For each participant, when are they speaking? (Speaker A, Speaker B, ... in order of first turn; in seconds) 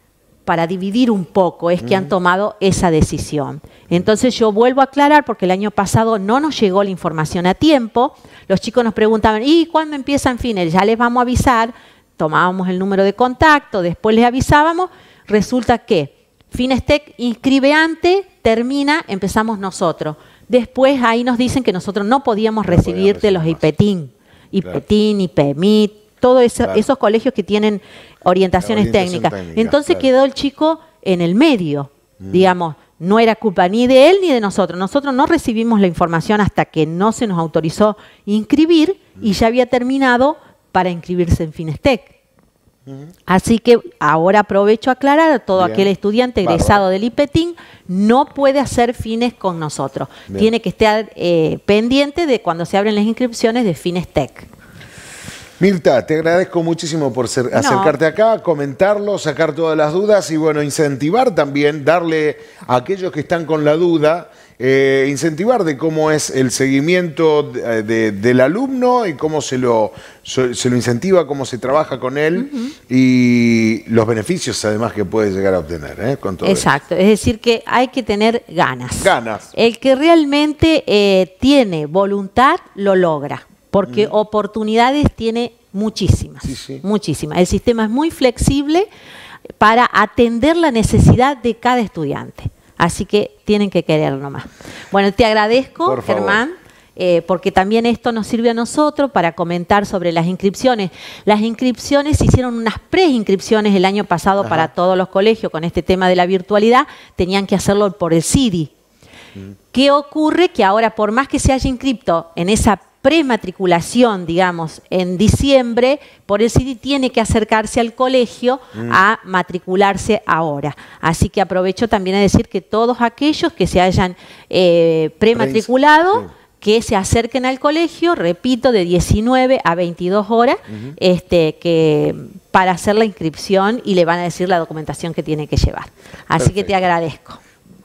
Speaker A: 0.5-42.1, 43.3-54.5, 57.5-57.9, 72.4-72.7, 76.4-88.9, 89.6-108.7, 109.7-137.4
Speaker B: 1.8-2.1, 22.7-23.6, 28.6-30.1, 32.2-32.5, 45.5-45.9, 46.4-46.8, 55.6-76.7, 79.0-79.5, 83.8-84.1, 86.4-86.8, 95.8-96.4, 104.4-104.7, 118.7-119.0, 125.3-126.3, 130.7-131.0, 136.4-136.7